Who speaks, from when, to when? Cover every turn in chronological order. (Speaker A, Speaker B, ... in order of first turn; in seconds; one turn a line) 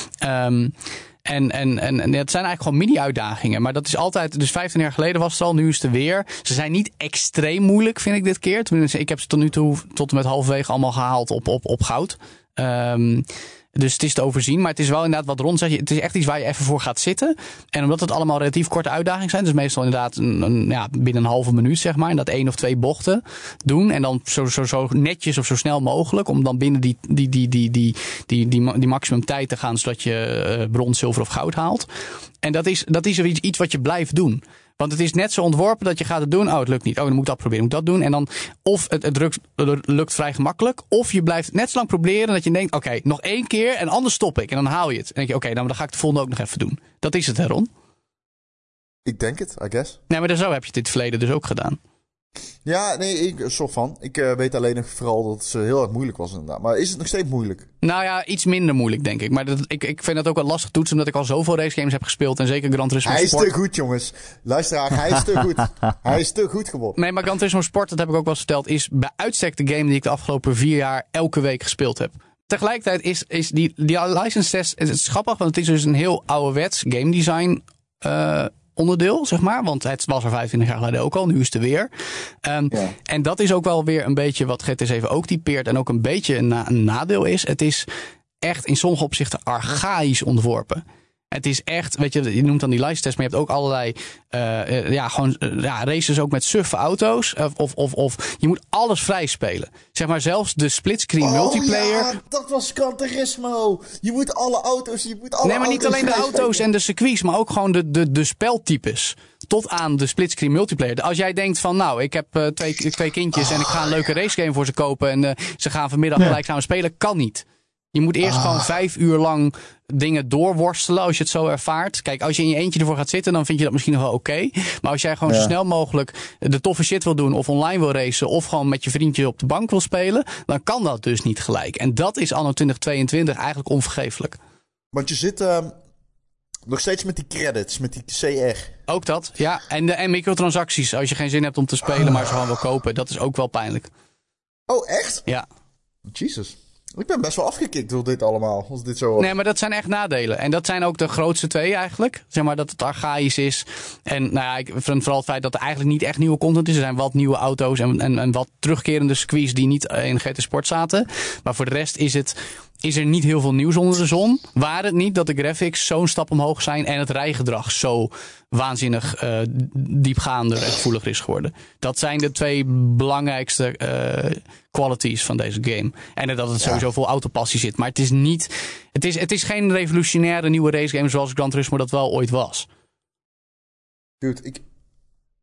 Speaker A: 0.2-31.9
Speaker A: 32.4-47.7
Speaker B: 49.0-50.0
Speaker A: 50.1-51.8
Speaker B: 52.6-57.7
Speaker A: 57.8-63.5
Speaker B: 63.0-67.0
Speaker A: 67.0-81.9
Speaker A: 82.4-87.9
Speaker A: 88.4-102.2
Speaker B: 101.2-106.6
Speaker A: 105.4-134.4
Speaker B: 118.2-118.7
Speaker B: 125.3-125.5
Speaker B: 134.9-135.7
Speaker B: 136.7-138.7
Speaker A: 138.9-143.9
Speaker B: 144.7-145.3
Speaker B: 146.1-149.3
Speaker A: 149.2-182.7
Speaker B: 184.2-184.6